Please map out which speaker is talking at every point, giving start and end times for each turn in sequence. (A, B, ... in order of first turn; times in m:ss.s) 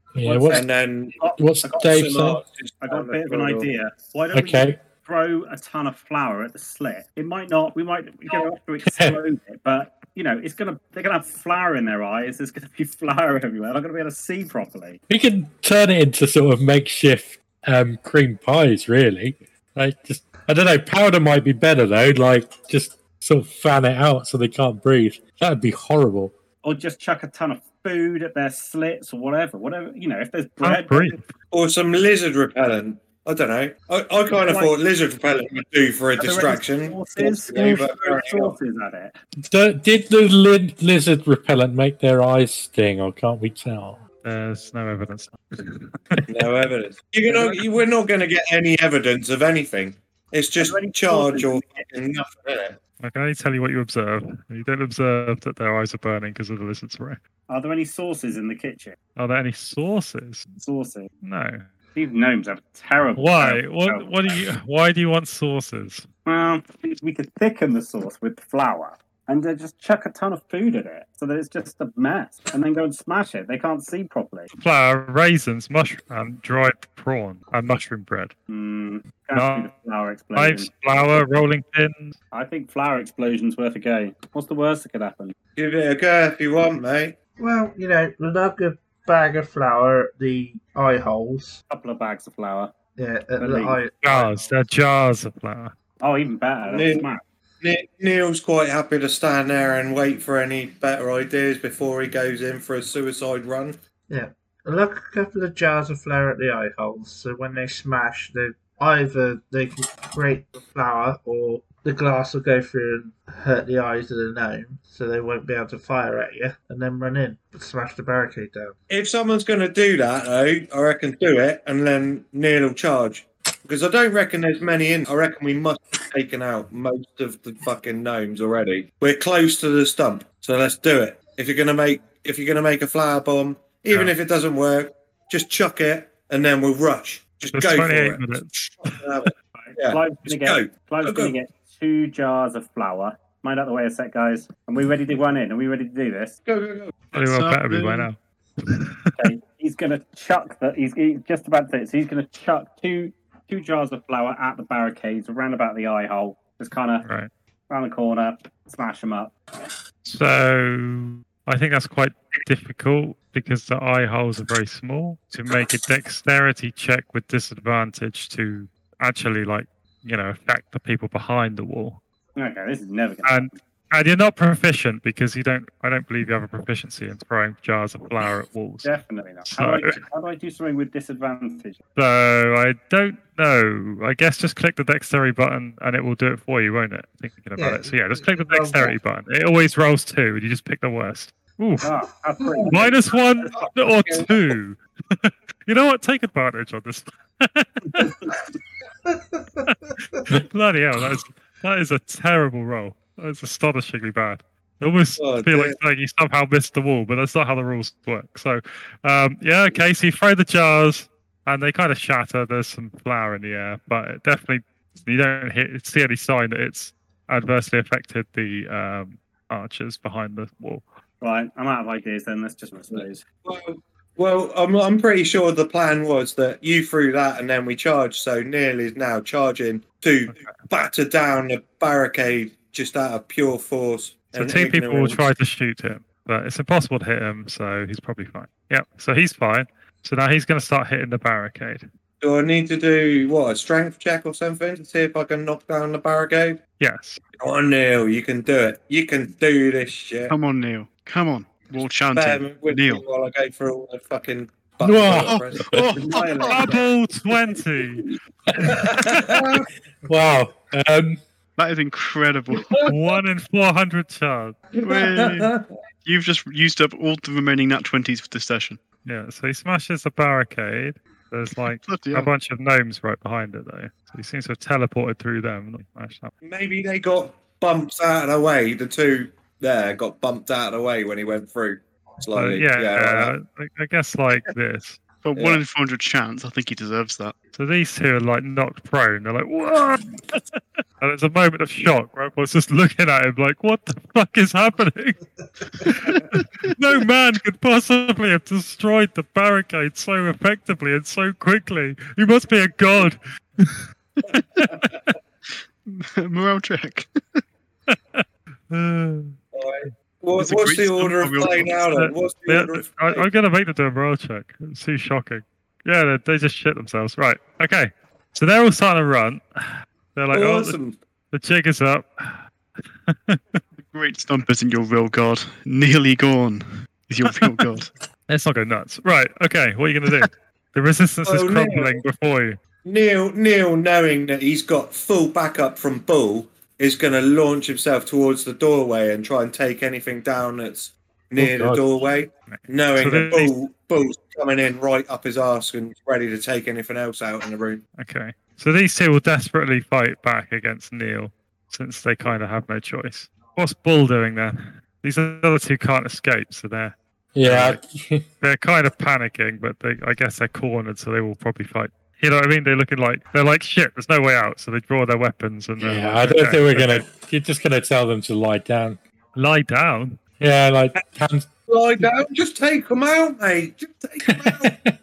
0:00.2-0:00.6 A
0:00.2-0:01.9 B
0:00.5-0:01.2 C
0:01.4-0:02.4 A
0:01.8-0:03.7 C
0:02.8-0:15.0 B
0:04.3-0:04.8 A
0:08.9-0:09.2 A
0:15.1-0:26.4 A
0:26.6-0:31.2 B
0:30.6-0:31.2 D
0:31.5-0:38.6 C
0:34.3-0:34.7 B
0:36.2-0:39.2 B
0:39.4-0:44.0 A
0:44.2-0:46.2 D
0:46.3-0:52.8 C
0:47.3-0:47.6 B
0:50.6-0:51.9 B
0:53.0-0:57.2 D
0:57.5-0:59.0 B
0:59.2-1:00.5 D
1:00.5-1:01.1 B
1:01.2-1:01.7 D
1:02.0-1:04.5 B
1:03.2-1:06.1 D
1:06.2-1:14.5 B
1:14.5-1:18.3 D
1:18.5-1:21.2 B
1:19.3-1:19.7 D
1:20.4-1:22.2 D
1:22.3-1:25.3 B
1:25.6-1:27.2 C
1:27.4-1:31.6 E
1:31.7-1:32.7 B
1:33.0-1:34.3 E
1:33.4-1:33.8 B
1:34.0-1:35.7 D
1:36.0-1:37.2 B
1:36.7-1:37.1 C
1:37.6-1:43.8 C
1:44.1-1:58.8 E
1:58.9-2:21.3 C
2:17.5-2:19.0 D
2:19.6-2:26.4 B
2:26.5-2:27.0 C
2:27.1-2:29.3 D
2:27.1-2:28.1 F
2:29.2-2:37.1 B
2:37.0-2:37.3 D
2:37.7-2:39.3 B
2:40.0-2:52.0 D
2:52.4-2:53.6 B
2:53.2-2:58.9 D
2:58.8-3:01.8 B
2:59.4-3:00.0 D
3:02.0-3:11.9 D
3:07.6-3:09.0 E
3:11.8-3:13.2 B
3:12.7-3:18.3 D
3:13.5-3:14.5 C
3:19.1-3:19.7 E
3:20.3-3:40.8 D
3:25.2-3:25.8 C
3:41.2-3:43.2 B
3:42.9-3:55.2 C
3:50.3-3:50.6 D
3:54.3-4:01.8 D
4:02.2-4:06.6 C
4:06.8-4:07.2 D
4:07.4-4:10.3 C
4:10.3-4:13.0 F
4:12.1-4:16.8 C
4:14.8-4:15.9 A
4:15.1-4:16.8 F
4:16.5-4:18.1 D
4:18.5-4:18.8 A
4:18.6-4:19.7 C
4:20.1-4:21.2 A
4:21.6-4:22.9 F
4:22.9-4:24.6 D
4:24.8-4:25.7 C
4:24.8-4:25.5 F
4:26.0-4:28.8 F
4:29.0-4:36.3 D
4:31.8-4:32.3 F
4:36.4-4:43.3 C
4:42.3-4:45.0 D
4:45.2-4:47.3 F
4:45.4-4:45.6 C
4:47.5-4:55.2 D
4:55.8-5:03.8 D
4:55.9-4:56.7 F
5:04.3-5:04.7 F
5:04.7-5:05.0 C
5:05.9-5:07.4 F
5:07.9-5:09.4 D
5:09.5-5:13.3 C
5:10.4-5:11.7 F
5:11.9-5:20.8 D
5:20.3-5:21.0 C
5:21.3-5:22.4 D
5:23.1-5:23.6 D
5:23.8-5:27.9 F
5:27.3-5:27.6 D
5:28.3-5:32.6 D
5:31.3-5:32.0 C
5:32.8-5:47.8 C
5:41.4-5:41.8 A
5:42.5-5:43.6 D
5:48.0-5:57.8 D
5:57.4-5:58.2 A
5:58.4-6:07.0 D
6:05.8-6:09.0 A
6:09.4-6:10.2 D
6:10.4-6:12.1 A
6:11.7-6:14.7 C
6:14.2-6:15.0 A